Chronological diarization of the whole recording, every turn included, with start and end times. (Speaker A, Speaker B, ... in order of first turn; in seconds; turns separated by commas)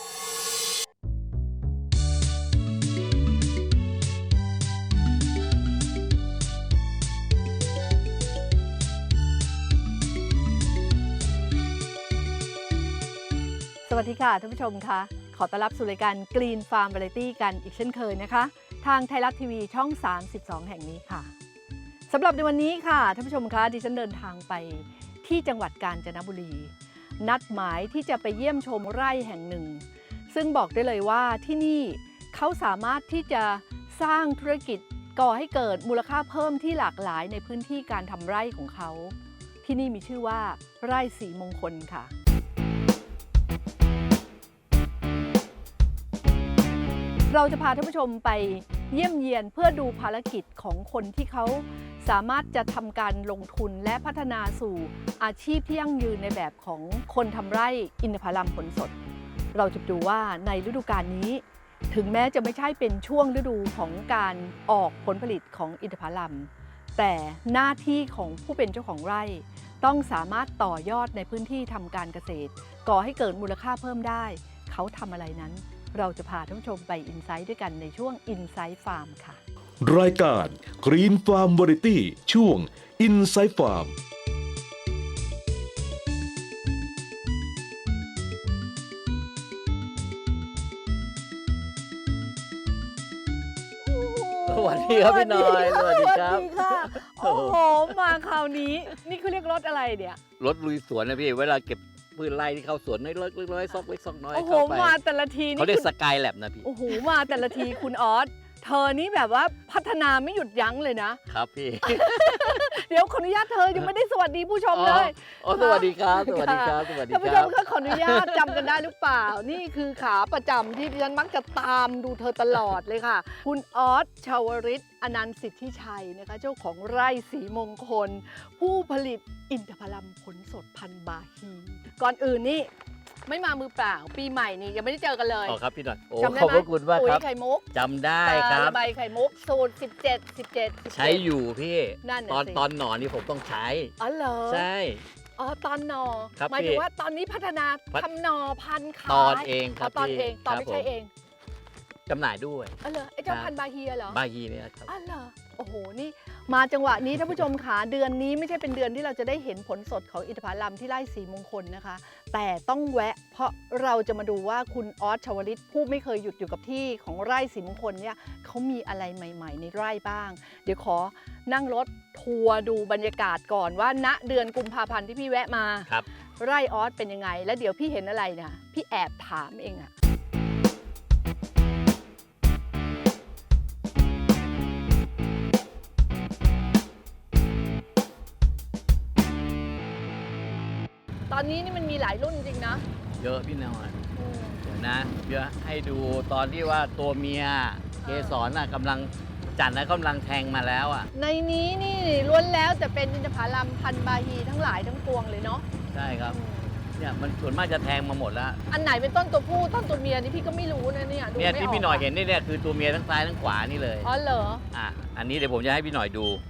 Speaker A: 13.8-21.3, Speaker A: 22.1-42.1, Speaker A: 47.3-58.9, Speaker A: 59.5-79.4, Speaker B: 79.8-83.9, Speaker A: 93.8-100.2, Speaker C: 94.5-98.2, Speaker C: 100.4-105.0, Speaker A: 104.3-105.9, Speaker C: 105.6-107.7, Speaker A: 106.6-111.2, Speaker C: 111.3-112.7, Speaker A: 111.8-132.7, Speaker C: 114.7-118.7, Speaker A: 133.2-135.6, Speaker C: 135.4-138.8, Speaker A: 136.2-137.7, Speaker A: 138.2-141.3, Speaker C: 140.9-143.9, Speaker A: 142.0-142.6, Speaker A: 144.0-144.7, Speaker C: 144.4-145.0, Speaker A: 145.4-151.1, Speaker C: 146.4-146.8, Speaker C: 149.1-150.9, Speaker C: 152.1-153.5, Speaker A: 152.8-154.2, Speaker C: 154.1-154.9, Speaker A: 154.8-179.9, Speaker A: 191.3-192.8, Speaker C: 193.1-194.1, Speaker A: 194.2-194.7, Speaker C: 194.6-201.1, Speaker A: 198.0-198.4, Speaker A: 201.1-205.6, Speaker C: 205.9-206.4, Speaker A: 206.3-206.8, Speaker C: 206.9-208.6, Speaker A: 208.7-212.1, Speaker C: 211.3-214.1, Speaker A: 214.0-214.6, Speaker C: 214.7-216.4